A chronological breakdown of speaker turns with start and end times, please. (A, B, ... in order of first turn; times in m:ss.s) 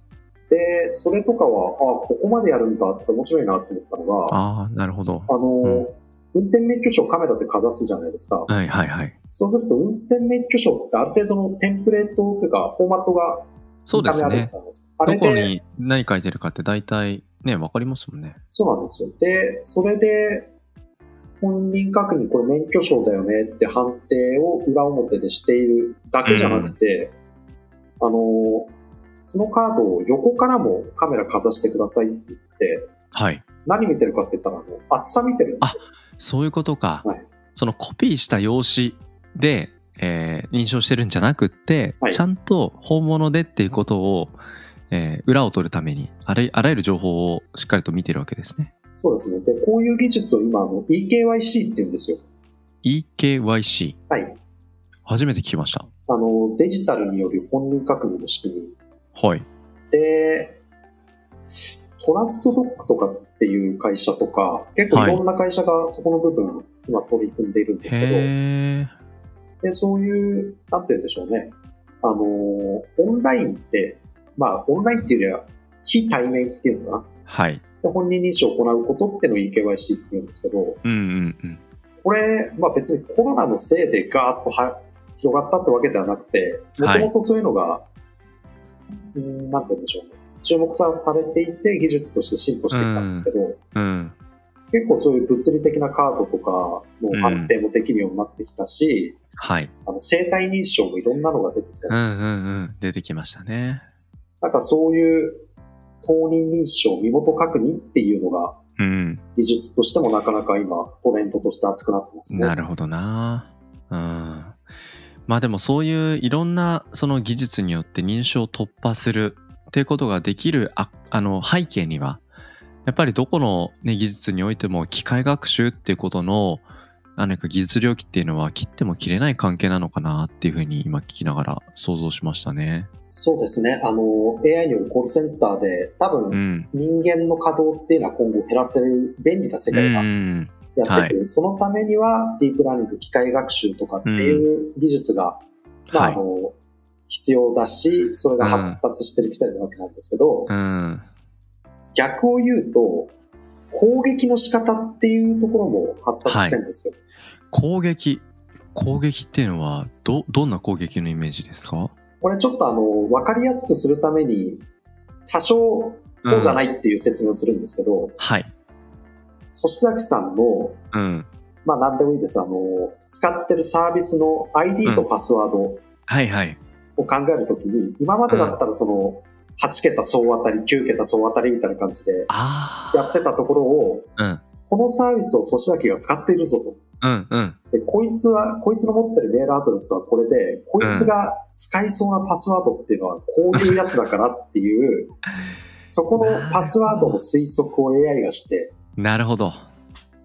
0:00.5-0:04.4 A
0:04.3-0:05.9 B
0:05.3-0:08.5 A
0:08.5-0:09.1 B
0:09.3-0:15.5 A
0:13.8-0:14.5 B
0:15.0-0:18.4 B
0:18.5-0:20.5 A
0:21.4-0:27.1 A
0:26.2-0:26.7 B
0:28.0-0:28.7 A
0:29.2-0:32.9 A
0:33.1-0:33.4 B
0:33.6-0:35.8 A
0:35.6-0:44.4 B
0:44.9-0:48.7 B
0:49.0-0:52.2 A
0:52.8-0:54.0 B
0:54.1-0:54.4 A
0:55.0-0:55.9 B
0:56.1-0:58.8 A
0:59.1-0:59.4 B
0:59.9-1:00.6 A
1:02.0-1:08.3 A
1:04.9-1:05.2 B
1:07.8-1:08.9 B
1:09.6-1:17.1 A
1:17.3-1:17.6 B
1:17.8-1:20.8 A
1:20.8-1:21.6 B
1:22.0-1:27.9 A
1:26.8-1:27.1 B
1:29.1-1:33.6 A
1:32.7-1:34.1 B
1:34.7-1:39.2 A
1:37.1-1:37.5 B
1:39.4-1:39.7 B
1:39.8-1:42.3 A
1:41.9-1:43.8 B
1:44.4-1:45.4 A
1:46.0-1:48.6 A
1:48.8-1:49.2 B
1:49.3-1:52.5 A
1:52.3-1:54.6 B
1:55.3-2:02.2 B
2:02.8-2:06.6 B
2:07.2-2:12.9 B
2:13.1-2:20.1 A
2:16.3-2:16.7 B
2:19.7-2:21.1 B
2:20.7-2:26.6 A
2:24.0-2:24.4 B
2:25.9-2:26.2 B
2:27.1-2:30.5 A
2:28.4-2:28.8 B
2:30.5-2:31.0 B
2:31.9-2:33.1 A
2:33.7-2:37.0 A
2:36.2-2:36.6 B
2:37.5-2:41.9 B
2:42.2-2:44.6 A
2:45.3-2:48.2 A
2:46.2-2:46.6 B
2:48.2-2:48.5 B
2:49.5-2:50.8 A
2:50.9-2:51.3 B
2:51.6-2:55.8 A
2:56.1-2:56.6 B
2:57.0-3:02.3 A
2:58.3-2:58.6 B
3:02.3-3:03.2 B
3:02.9-3:04.1 A
3:04.7-3:06.8 A
3:07.0-3:07.6 B
3:07.7-3:15.1 A
3:10.8-3:11.1 B
3:15.8-3:18.7 A
3:16.2-3:17.2 B
3:19.0-3:19.7 B